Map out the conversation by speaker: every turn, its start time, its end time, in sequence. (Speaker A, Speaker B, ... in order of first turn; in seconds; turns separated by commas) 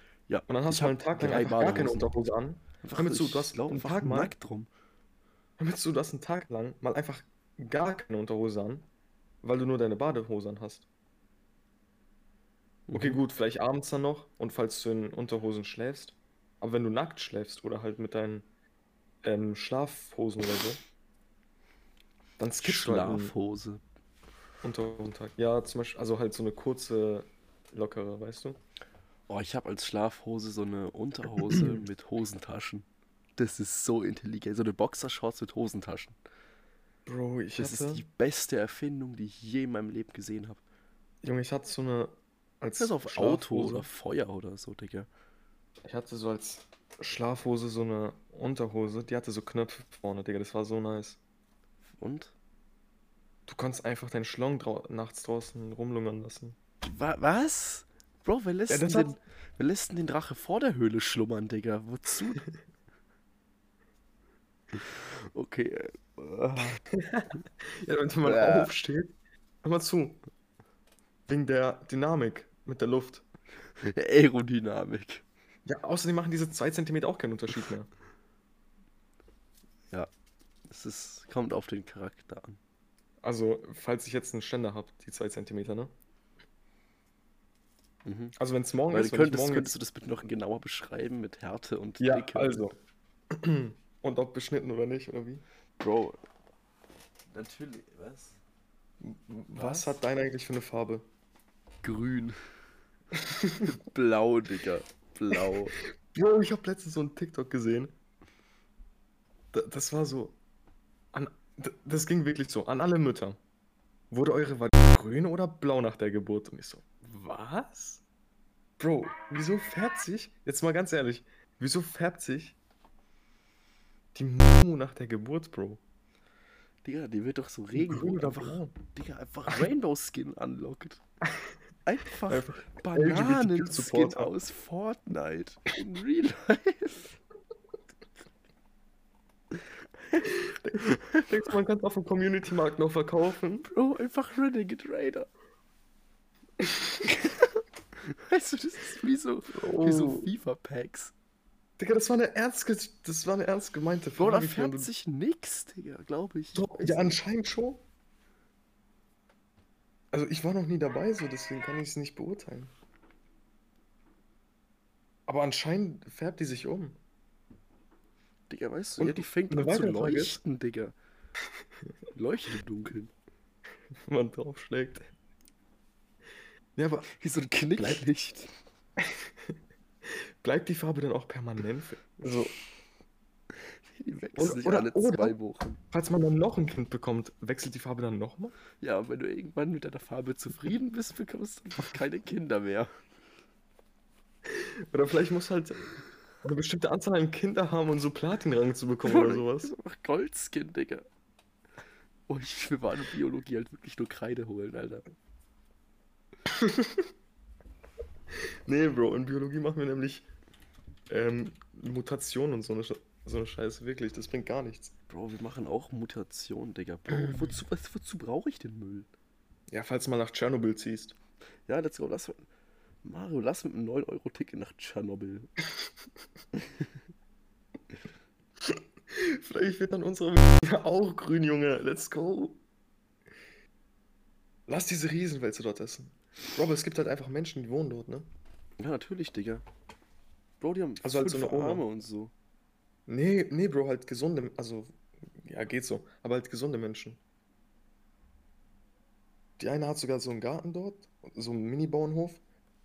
Speaker A: 0.3-2.1, Speaker B: 0.5-4.3, Speaker A: 2.8-4.7, Speaker B: 5.6-8.9, Speaker B: 9.4-10.9, Speaker A: 12.9-13.2, Speaker B: 12.9-18.5, Speaker B: 19.2-20.8, Speaker B: 22.4-23.3, Speaker A: 22.6-23.8, Speaker B: 24.6-28.6, Speaker A: 29.3-32.9, Speaker B: 31.4-31.8, Speaker A: 33.4-36.1, Speaker B: 37.0-38.0, Speaker A: 37.5-40.6, Speaker B: 41.2-43.9, Speaker A: 42.8-45.1, Speaker B: 45.8-51.2, Speaker A: 52.0-52.3, Speaker B: 53.5-56.5, Speaker A: 56.8-62.4, Speaker B: 58.7-59.2, Speaker A: 64.7-66.8, Speaker B: 66.9-70.2, Speaker A: 68.2-68.7, Speaker B: 71.3-73.2, Speaker A: 73.8-75.2, Speaker B: 75.6-77.9, Speaker A: 80.7-82.6, Speaker B: 83.2-85.9, Speaker A: 88.0-88.3, Speaker B: 88.3-89.7, Speaker A: 88.9-92.6, Speaker B: 92.0-92.8, Speaker B: 93.3-95.4, Speaker A: 95.8-96.2, Speaker A: 97.3-98.4, Speaker B: 99.0-101.0, Speaker A: 99.5-100.0, Speaker A: 101.8-102.3, Speaker B: 103.1-103.7, Speaker A: 103.6-105.8, Speaker B: 105.3-107.9, Speaker B: 109.5-110.4, Speaker B: 111.1-113.4, Speaker B: 114.1-118.0, Speaker B: 118.8-122.5, Speaker B: 124.1-125.8, Speaker A: 126.8-131.0, Speaker B: 127.8-128.7, Speaker A: 131.8-137.2, Speaker B: 132.3-134.3, Speaker A: 140.1-141.2, Speaker B: 140.3-143.7, Speaker A: 143.7-145.3, Speaker A: 147.1-151.1, Speaker B: 149.5-150.3, Speaker B: 151.8-154.9, Speaker A: 154.2-157.2, Speaker B: 156.5-157.8, Speaker B: 160.1-162.7, Speaker B: 165.3-167.0, Speaker A: 168.5-170.9, Speaker B: 169.0-170.4, Speaker A: 172.1-173.1, Speaker B: 174.1-175.1, Speaker B: 176.8-177.1, Speaker A: 177.1-178.5, Speaker B: 177.8-178.0, Speaker B: 179.0-179.5, Speaker B: 180.1-182.5, Speaker A: 183.9-185.8, Speaker B: 184.3-185.3, Speaker B: 185.9-188.5, Speaker A: 188.8-192.9, Speaker B: 194.4-199.7, Speaker A: 199.0-201.1, Speaker A: 202.3-205.0, Speaker B: 206.5-207.1, Speaker B: 208.7-210.3, Speaker B: 211.1-214.9, Speaker A: 215.1-219.1, Speaker B: 219.7-221.2, Speaker A: 221.7-222.4, Speaker A: 223.0-225.5, Speaker B: 228.6-232.6, Speaker B: 234.7-238.3, Speaker A: 238.8-239.6, Speaker A: 240.6-242.3, Speaker B: 241.0-241.8, Speaker B: 243.1-247.2, Speaker B: 249.6-252.4